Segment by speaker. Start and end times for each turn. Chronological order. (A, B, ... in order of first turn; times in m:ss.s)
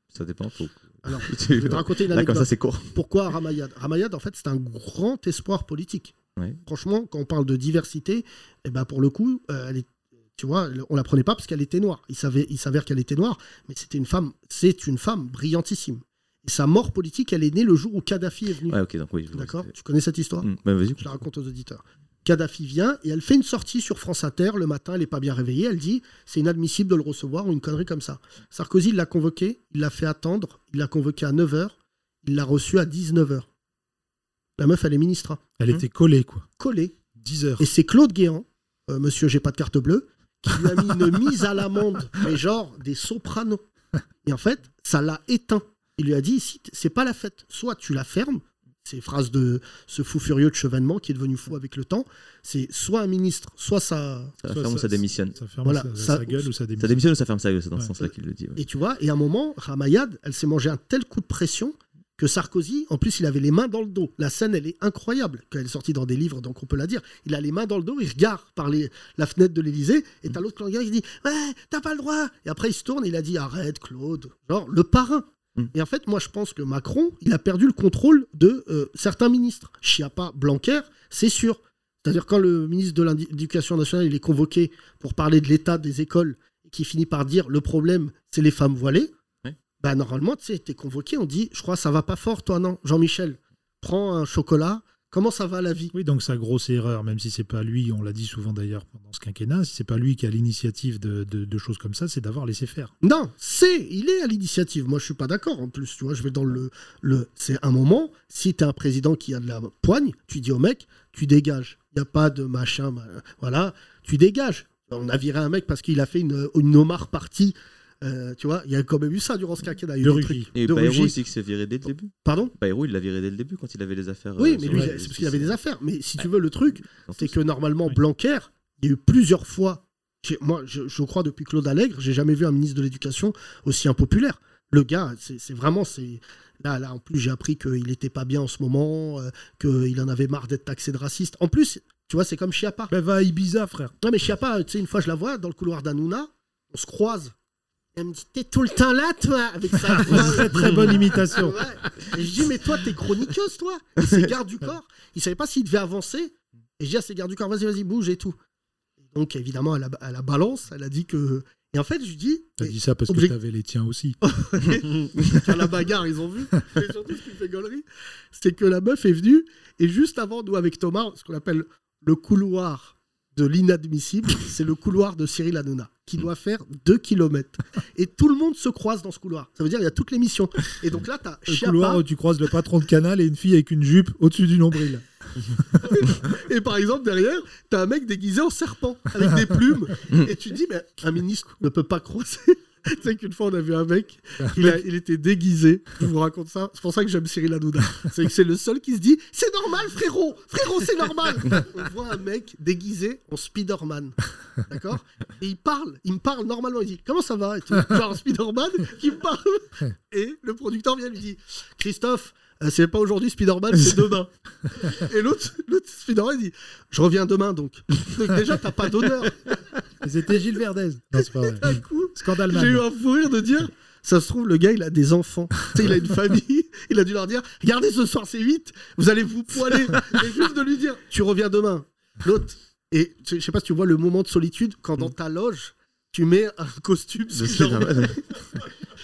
0:00.1-0:03.0 A
0:01.0-0:06.1 B
0:06.6-0:18.8 B
0:18.7-0:19.7 A
0:19.3-0:33.5 B
0:20.4-0:21.0 A
0:34.6-0:35.5 B
0:35.6-0:36.5 C
0:36.6-0:37.0 B
0:37.1-0:37.6 C
0:37.6-0:43.6 B
0:44.2-0:54.4 B
0:54.4-0:55.4 A
0:54.4-0:57.0 C
0:55.6-0:56.5 B
0:56.8-0:58.6 A
0:58.6-1:29.1 B
1:29.8-1:35.9 B
1:35.9-1:42.9 C
1:43.0-2:01.2 B
2:00.0-2:00.5 C
2:00.5-2:05.6 A
2:02.2-2:02.5 B
2:04.4-2:22.9 B
2:04.7-2:04.9 C
2:07.0-2:07.3 A
2:22.9-2:23.9 C
2:24.0-2:27.3 B
2:27.9-2:38.4 B
2:29.8-2:31.7 C
2:39.1-2:43.3 B
2:42.6-2:44.2 C
2:44.2-3:02.0 B
3:01.5-3:05.0 C
3:05.8-3:39.5 B
3:14.4-3:14.8 C
3:40.0-3:42.8 C
3:41.2-3:58.2 B
3:57.4-3:58.1 A